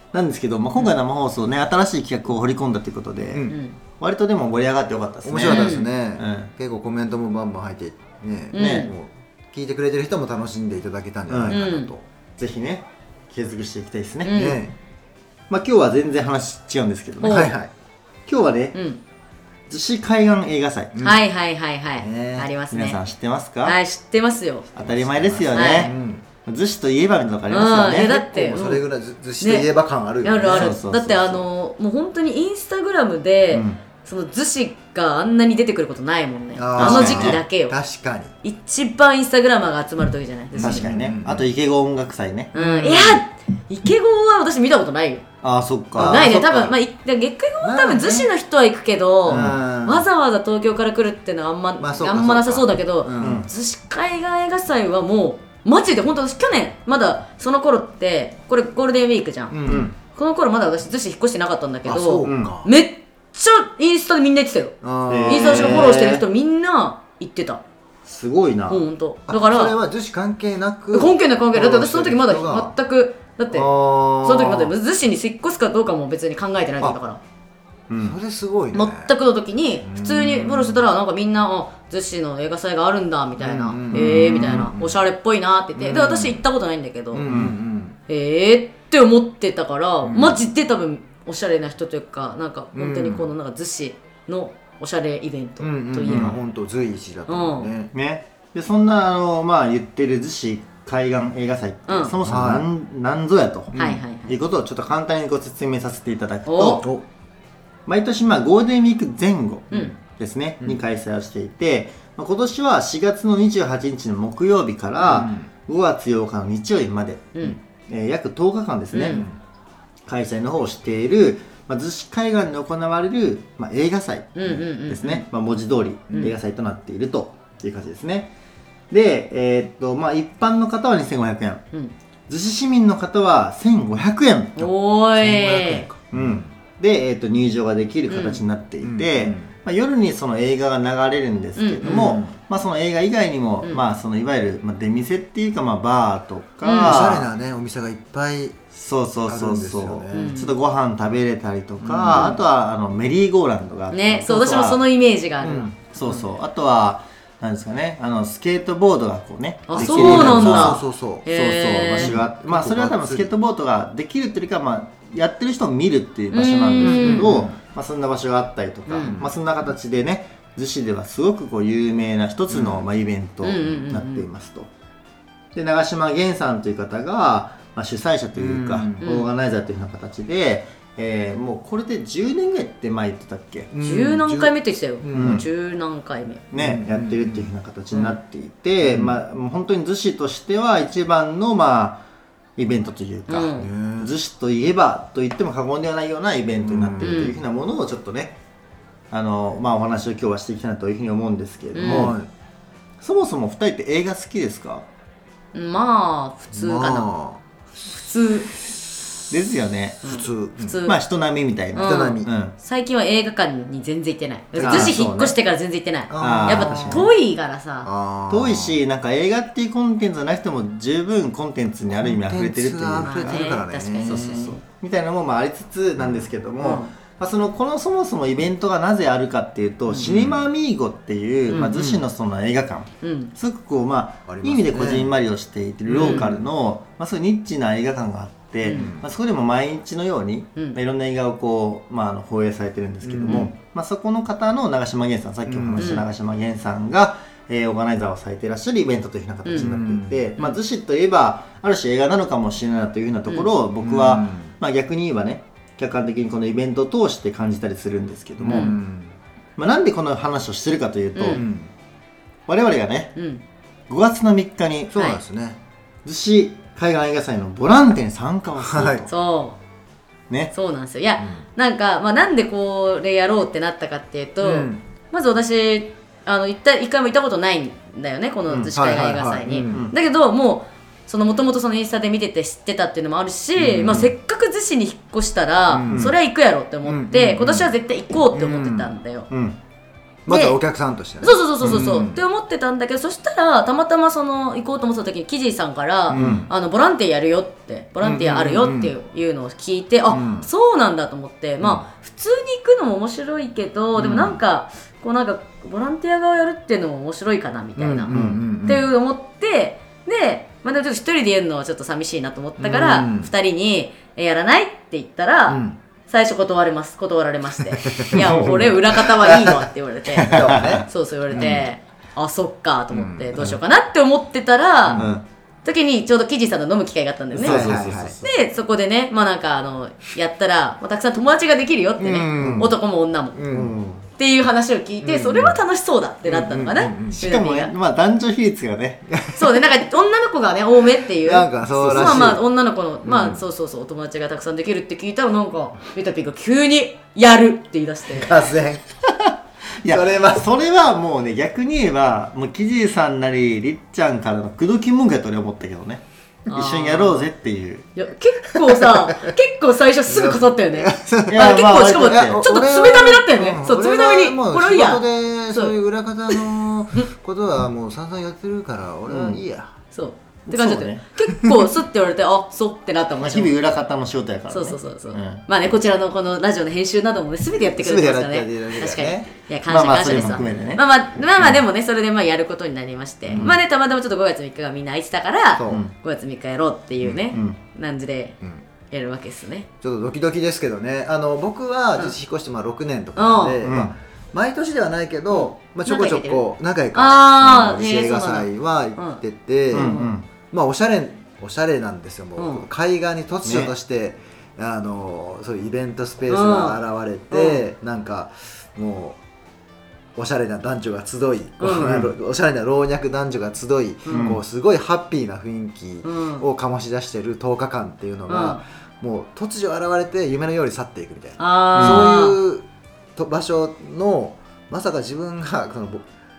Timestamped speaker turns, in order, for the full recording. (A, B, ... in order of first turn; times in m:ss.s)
0:00.1-0:03.4 A
0:03.3-0:03.6 B
0:03.5-0:03.8 C
0:04.0-0:06.5 A
0:05.2-0:12.0 B
0:05.4-0:05.8 C
0:08.5-0:08.9 C
0:08.5-0:08.9 A
0:11.3-0:11.6 A
0:11.5-0:11.9 C
0:12.4-0:14.4 A
0:14.2-0:14.6 C
0:14.3-0:14.7 B
0:15.5-0:17.5 A
0:17.2-0:17.5 C
0:17.2-0:17.7 B
0:18.3-0:18.8 A
0:18.7-0:19.0 C
0:19.7-0:20.9 A
0:20.9-0:21.2 B
0:21.0-0:23.0 C
0:22.0-0:22.5 B
0:22.7-0:23.8 A
0:23.6-0:24.7 C
0:24.7-0:25.9 A
0:24.8-0:26.2 B
0:25.5-0:25.9 C
0:26.4-0:28.1 A
0:27.5-0:28.8 C
0:27.9-0:30.8 B
0:29.4-0:29.7 C
0:30.2-0:37.8 C
0:30.4-0:31.4 A
0:33.5-0:33.8 A
0:36.5-0:38.3 B
0:36.8-0:37.4 A
0:38.4-0:40.9 C
0:40.5-0:41.4 B
0:40.6-0:42.5 A
0:42.5-0:45.2 C
0:42.5-0:43.2 B
0:45.4-0:46.3 A
0:45.9-0:46.8 B
0:46.0-1:07.6 C
0:47.6-0:48.3 B
0:49.2-0:50.1 B
0:49.3-0:49.6 A
0:51.8-0:53.5 B
0:53.2-0:53.5 A
0:59.5-0:59.9 B
0:59.6-0:59.9 A
1:01.8-1:02.7 B
1:02.2-1:02.5 A
1:04.8-1:06.0 B
1:05.1-1:06.2 A
1:08.0-1:08.8 A
1:08.7-1:09.8 C
1:09.3-1:12.7 B
1:10.9-1:17.2 C
1:13.5-1:14.7 B
1:17.9-1:18.1 A
1:18.0-1:19.1 B
1:18.7-1:27.3 C
1:19.8-1:20.8 B
1:23.4-1:25.0 B
1:23.9-1:24.4 A
1:25.8-1:26.4 B
1:27.1-1:28.0 B
1:27.2-1:27.6 A
1:28.1-1:36.4 C
1:30.0-1:30.4 B
1:32.7-1:33.3 B
1:35.6-1:37.9 B
1:36.0-1:36.3 A
1:37.3-1:37.7 C
1:37.9-1:43.8 A
1:41.9-1:42.1 C
1:42.2-1:42.7 B
1:43.7-1:44.4 C
1:43.7-1:44.0 B
1:44.3-1:46.9 A
1:46.4-1:46.8 C
1:47.9-1:59.2 A
1:55.0-1:55.5 B
1:58.9-1:59.2 C
1:59.0-1:59.4 B
2:00.1-2:08.3 A
2:04.3-2:05.2 C
2:08.9-2:11.6 A
2:12.3-2:14.7 A
2:14.6-2:15.9 C
2:15.2-2:16.5 B
2:16.1-2:27.3 A
2:18.1-2:18.4 C
2:18.8-2:19.5 B
2:21.6-2:21.9 C
2:21.8-2:22.4 B
2:26.6-2:27.0 C
2:26.8-2:28.6 B
2:28.7-2:34.8 A
2:29.3-2:30.4 B
2:30.1-2:30.5 C
2:31.8-2:32.4 B
2:32.1-2:32.4 C
2:33.9-2:36.3 C
2:35.4-2:35.7 B
2:35.8-2:54.7 A
2:39.7-2:42.2 C
2:39.7-2:41.2 B
2:42.0-2:43.3 B
2:46.3-2:47.3 C
2:46.8-2:47.6 B
2:48.9-2:49.2 C
2:49.0-2:49.4 B
2:52.5-2:52.9 B
2:53.4-2:54.3 C
2:55.5-3:03.7 A
2:58.4-2:59.2 B
2:59.0-2:59.3 C
3:03.7-3:05.4 B
3:03.8-3:06.4 C
3:05.1-3:05.4 A
3:06.5-3:12.0 A
3:06.6-3:07.5 B
3:08.8-3:09.2 B
3:12.6-3:18.4 A
3:13.3-3:13.7 C
3:13.6-3:14.1 B
3:16.6-3:17.3 B
3:17.0-3:17.4 C
3:19.1-3:22.2 A
3:21.7-3:22.1 C
3:21.8-3:22.3 B
3:23.0-3:24.8 A
3:25.5-3:27.1 C
3:26.5-3:27.4 B
3:27.9-3:28.5 C
3:29.3-3:30.2 A
3:30.0-3:31.0 C
3:30.0-3:30.8 B
3:30.8-3:32.5 A
3:31.7-3:37.9 C
3:31.8-3:32.3 B
3:34.5-3:35.0 B
3:34.6-3:35.4 A
3:36.1-3:37.1 B
3:36.2-3:37.1 A
3:37.8-3:38.8 B
3:38.3-4:18.7 A
3:42.0-3:44.4 B
3:43.0-3:44.6 C
3:46.0-3:46.3 B
3:46.6-3:46.9 C
3:49.9-3:50.5 B
3:51.5-3:51.8 C
3:51.5-3:52.0 B
3:53.0-3:53.3 C
3:54.3-3:55.1 B
3:55.9-3:56.4 B
3:56.0-3:56.3 C
3:58.7-3:59.1 B
4:03.0-4:03.5 B
4:05.5-4:06.0 B
4:05.8-4:06.0 C
4:09.4-4:09.7 C
4:09.5-4:10.2 B
4:13.8-4:14.5 B
4:18.4-4:19.2 B
4:18.5-4:18.7 C
4:19.6-4:21.4 A
4:21.1-4:21.4 C
4:21.3-4:21.7 B
4:22.5-4:23.1 A
4:23.1-4:23.4 C
4:23.9-4:25.0 A
4:24.9-4:25.6 B
4:24.9-4:25.2 C
4:26.0-4:29.1 A
4:28.6-4:29.1 B
4:29.1-4:29.6 C
4:30.5-4:49.3 C
4:31.2-4:31.4 B
4:34.4-4:34.8 B
4:38.5-4:38.7 A
4:38.7-4:39.9 B
4:39.6-4:39.9 A
4:43.6-4:44.1 B
4:43.9-4:44.1 A
4:45.7-4:46.1 B
4:45.9-4:46.1 A
4:46.8-4:47.7 B
4:48.3-4:48.9 B
4:49.3-4:49.6 A
4:50.2-4:52.2 B
4:50.3-4:50.6 C
4:51.2-5:25.1 C
4:56.1-4:56.5 B
4:56.1-4:56.5 A
4:58.0-4:58.9 B
5:00.1-5:00.5 B
5:01.6-5:01.8 B
5:03.9-5:04.4 B
5:07.8-5:08.9 B
5:08.1-5:08.4 A
5:12.6-5:13.3 B
5:15.5-5:15.8 B
5:17.9-5:18.3 B
5:18.2-5:18.7 A
5:19.2-5:19.6 B
5:20.2-5:21.6 A
5:20.3-5:21.7 B
5:22.9-5:23.6 B
5:24.8-5:25.2 B
5:24.9-5:25.2 A
5:25.6-5:33.4 C
5:27.3-5:28.3 A
5:27.4-5:28.2 B
5:32.0-5:32.7 B
5:32.4-5:32.7 A
5:33.3-5:33.7 B
5:33.5-5:34.1 A
5:34.2-5:37.7 C
5:35.0-5:35.6 B
5:36.2-5:37.2 B
5:37.1-5:39.1 A
5:39.1-5:39.6 B
5:39.3-5:48.4 C
5:41.2-5:42.4 B
5:41.8-5:42.4 A
5:43.0-5:43.4 B
5:48.1-5:48.8 B
5:49.2-5:57.9 A
5:49.9-5:50.4 B
5:56.5-5:57.3 C
5:57.9-6:05.7 C
5:58.6-5:59.3 B
6:00.1-6:09.7 B
6:01.3-6:02.5 A
6:06.3-6:07.1 C
6:09.1-6:09.4 A
6:09.9-6:13.5 C
6:10.5-6:11.1 A
6:13.2-6:15.4 A
6:14.5-6:28.4 C
6:17.6-6:19.3 B
6:19.7-6:20.8 A
6:23.3-6:23.6 B
6:23.3-6:23.6 A
6:25.6-6:25.9 B
6:27.0-6:27.6 A
6:28.9-6:29.7 C
6:29.8-6:49.2 B
6:33.2-6:33.6 C
6:33.6-6:33.9 A
6:35.3-6:39.2 C
6:39.7-6:40.3 A
6:39.7-6:40.1 C
6:42.4-6:42.6 C
6:43.4-6:43.7 A
6:46.3-6:47.6 C
6:50.2-7:06.0 B
6:51.6-6:51.9 C
6:51.6-6:52.1 A
6:54.0-6:54.3 C
6:54.1-6:54.4 A
6:56.0-6:56.4 C
6:58.3-6:58.6 C
7:01.4-7:02.4 C
7:01.8-7:02.1 A